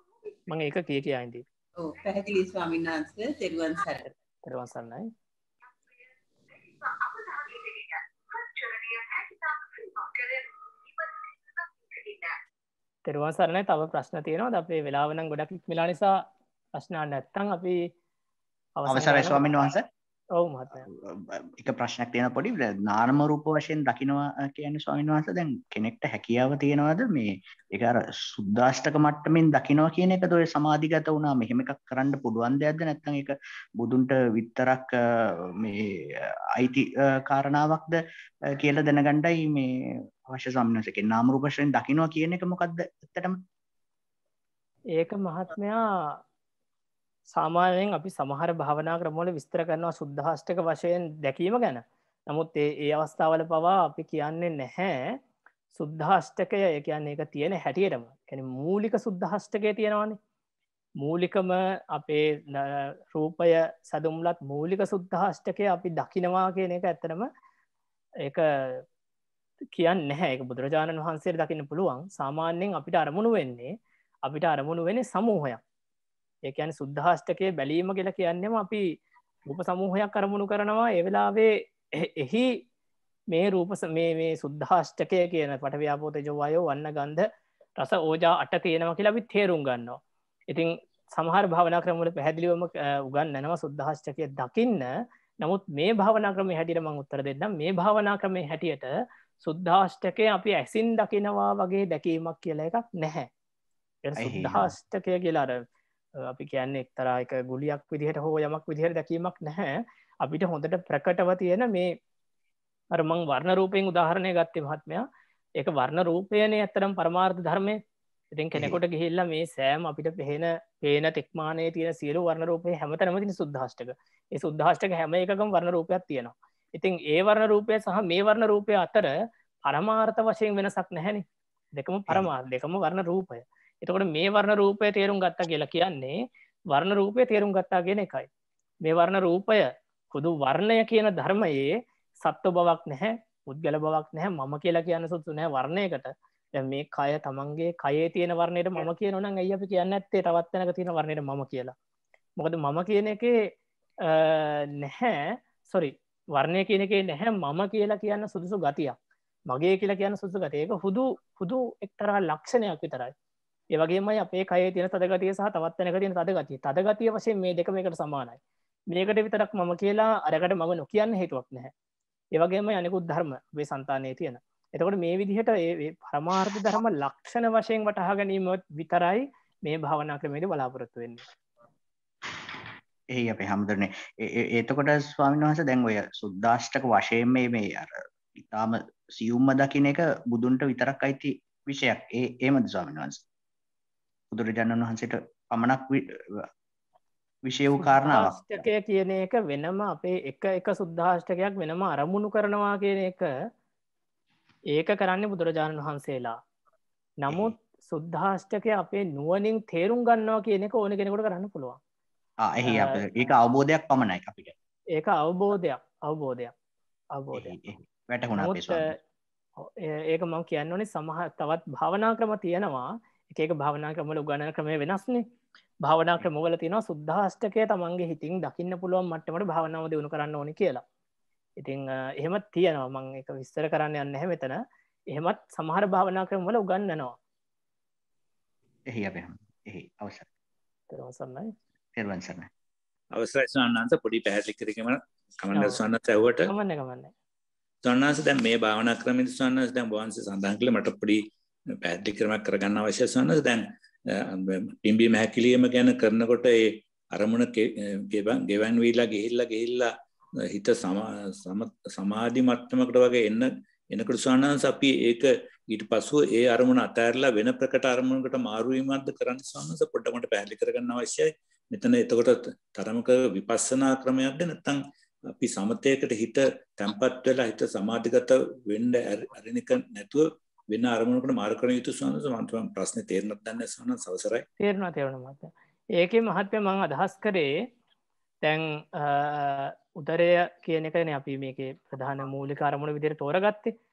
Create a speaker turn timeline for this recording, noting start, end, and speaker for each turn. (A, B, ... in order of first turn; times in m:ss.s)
0:00.5-0:01.4 A
0:01.8-0:04.0 B
0:04.0-0:05.1 A
0:13.1-0:16.2 A
0:16.8-0:17.9 A
0:18.8-0:19.7 A
0:18.9-0:19.8 C
0:20.4-0:20.8 A
0:20.9-0:34.9 C
0:35.6-0:38.0 C
0:38.6-0:39.7 C
0:40.3-0:43.4 C
0:45.0-0:46.2 A
0:47.3-0:55.2 A
0:55.8-1:00.2 A
1:01.0-1:07.3 A
1:08.2-1:08.8 A
1:09.8-1:15.6 A
1:16.4-1:22.6 A
1:23.3-1:27.3 A
1:27.8-1:43.3 A
1:44.0-1:45.6 A
1:44.2-1:44.7 C
1:46.2-1:51.9 A
1:52.9-1:55.1 A
1:55.6-1:57.8 A
1:58.4-2:11.2 A
2:11.8-2:18.3 A
2:18.8-2:31.8 A
2:32.4-2:33.5 A
2:34.0-2:39.0 A
2:39.5-2:43.1 A
2:43.7-2:48.4 A
2:48.9-2:51.7 A
2:52.4-3:01.2 A
3:03.1-3:08.0 C
3:08.5-3:13.2 C
3:14.3-3:16.2 C
3:17.4-3:18.7 C
3:17.8-3:23.2 A
3:24.7-3:26.4 A
3:27.2-3:31.8 A
3:27.3-3:27.5 C
3:32.4-3:34.5 C
3:32.6-3:33.0 A
3:35.0-3:36.5 A
3:37.1-3:37.5 A
3:37.4-3:38.9 C
3:38.4-3:38.9 A
3:39.6-3:45.2 A
3:45.8-3:50.8 A
3:51.6-3:54.6 A
3:55.1-3:57.2 A
3:58.9-4:00.3 C
4:00.9-4:01.5 A
4:02.0-4:02.5 C
4:03.1-4:06.5 D
4:05.5-4:05.8 A
4:06.4-4:07.1 A
4:07.8-4:11.3 D
4:11.8-4:19.9 D
4:20.5-4:34.8 D
4:35.3-4:44.5 D
4:44.6-4:47.6 A
4:48.4-4:53.7 A